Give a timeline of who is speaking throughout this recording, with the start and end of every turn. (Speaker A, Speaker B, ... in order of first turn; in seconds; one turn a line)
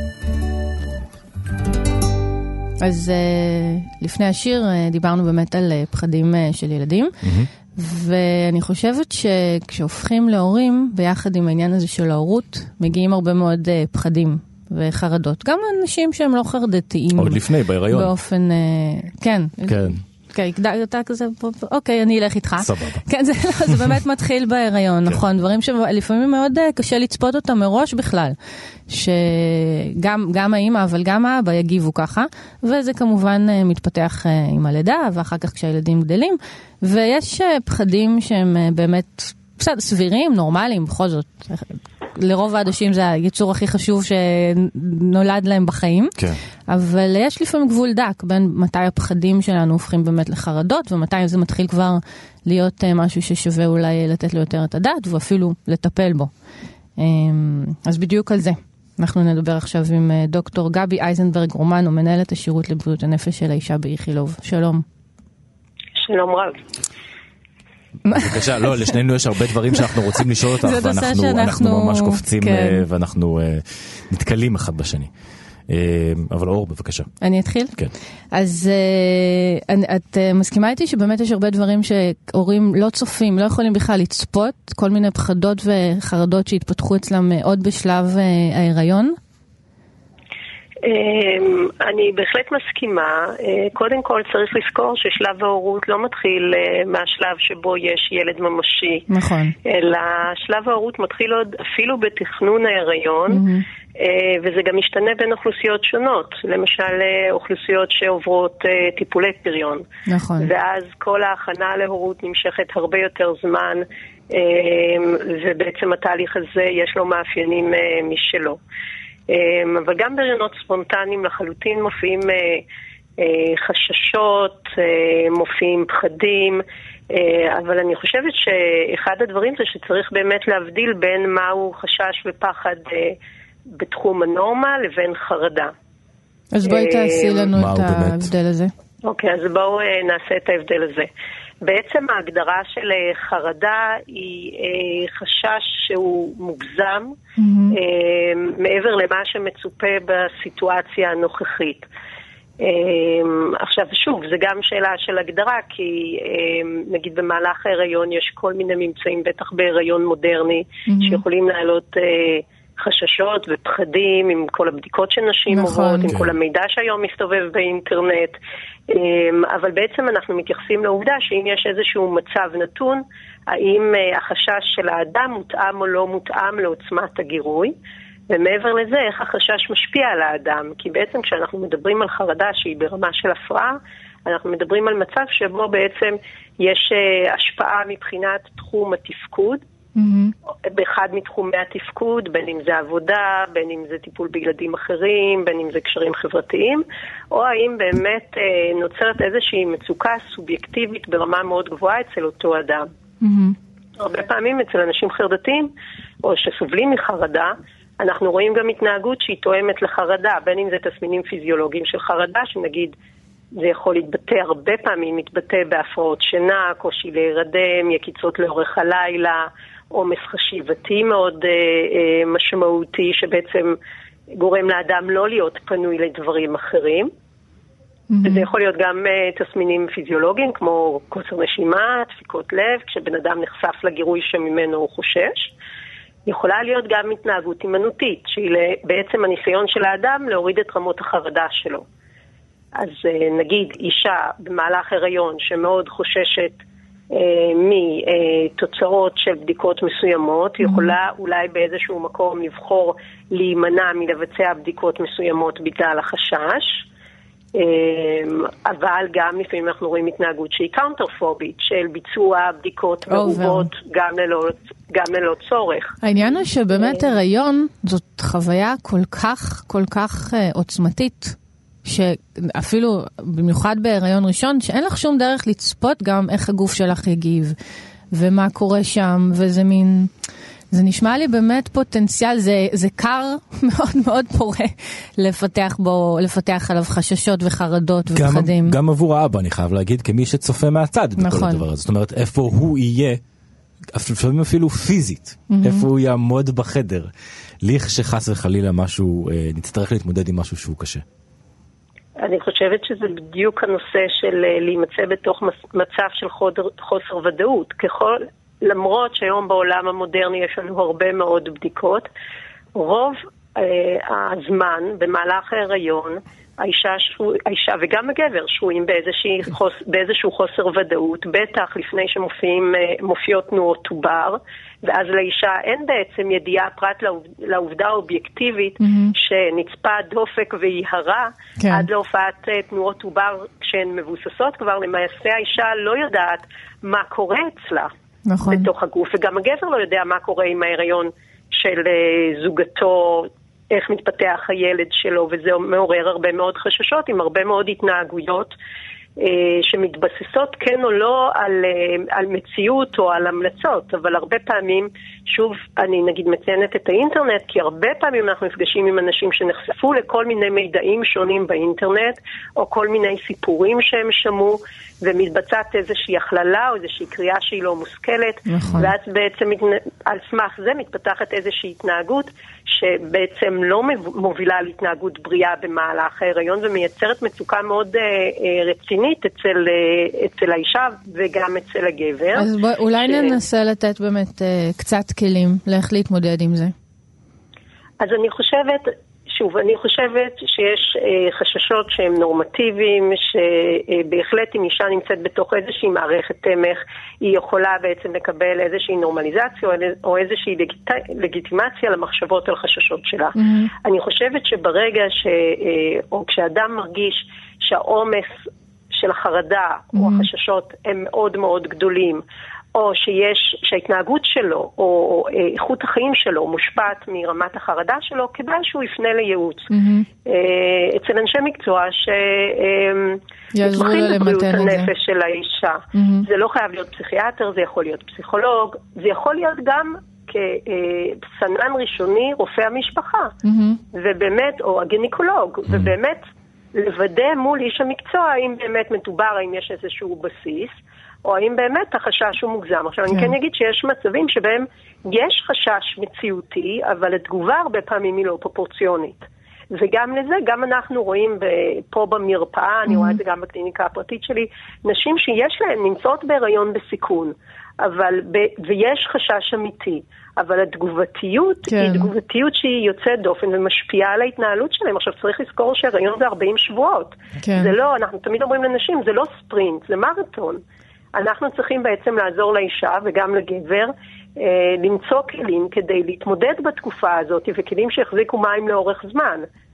Speaker A: 2.8-7.1
Speaker B: 7.2-7.5
Speaker A: 7.8-28.4
Speaker B: 17.1-18.1
Speaker B: 19.7-20.0
Speaker B: 22.6-23.0
Speaker A: 28.9-46.1
Speaker A: 46.7-56.3
Speaker A: 57.0-64.8
Speaker C: 66.0-66.6
Speaker A: 68.0-68.9
Speaker B: 68.1-75.1
Speaker A: 70.6-72.8
Speaker B: 75.7-77.1
Speaker A: 77.2-77.8
Speaker A: 78.3-89.2
Speaker C: 90.8-99.1
Speaker A: 99.1-99.5
Speaker C: 99.6-103.4
Speaker A: 103.3-103.6
Speaker C: 104.0-109.8
Speaker A: 110.1-110.5
Speaker C: 110.4-118.6
Speaker C: 119.3-122.6
Speaker C: 123.2-133.2
Speaker C: 133.7-135.7
Speaker A: 136.5-138.7
Speaker C: 136.6-137.5
Speaker B: 137.5-138.3
Speaker C: 139.0-141.1
Speaker C: 141.6-147.1
Speaker A: 147.4-147.8
Speaker C: 147.7-151.8
Speaker C: 152.6-168.3
Speaker A: 160.9-161.2
Speaker A: 165.5-166.1
Speaker C: 168.9-177.7
Speaker C: 178.3-189.6
Speaker A: 189.9-190.3
Speaker C: 190.6-202.9
Speaker A: 203.2-203.6
Speaker C: 204.0-205.7
Speaker C: 206.2-212.9
Speaker C: 213.6-223.8
Speaker C: 224.3-227.1
Speaker A: 228.1-228.5
Speaker C: 228.2-235.5
Speaker C: 236.2-241.8
Speaker C: 242.8-246.6
Speaker C: 247.1-256.8
Speaker A: 250.6-250.9
Speaker C: 257.5-266.0
Speaker A: 263.1-263.7
Speaker A: 266.0-277.5
Speaker A: 278.1-280.1
Speaker A: 280.7-288.8
Speaker B: 288.1-293.2
Speaker A: 291.2-291.6
Speaker B: 293.9-297.1
Speaker A: 295.5-295.9
Speaker B: 297.6-301.0
Speaker C: 302.2-312.1
Speaker C: 312.7-337.9
Speaker A: 328.8-329.1
Speaker A: 331.6-331.9
Speaker A: 338.3-338.7
Speaker C: 338.5-348.5
Speaker C: 349.2-382.5
Speaker A: 368.5-368.9
Speaker A: 382.4-386.7
Speaker C: 383.0-383.4
Speaker C: 388.0-412.2
Speaker A: 403.4-403.7
Speaker A: 409.9-410.3
Speaker C: 412.7-419.7
Speaker A: 419.7-420.1
Speaker C: 420.2-433.3
Speaker A: 423.5-424.9
Speaker A: 425.9-426.2
Speaker A: 433.4-433.8
Speaker C: 433.9-436.2
Speaker C: 436.7-440.7
Speaker C: 441.2-470.6
Speaker A: 452.9-453.2
Speaker A: 461.7-462.1
Speaker A: 467.4-467.7
Speaker C: 471.1-479.4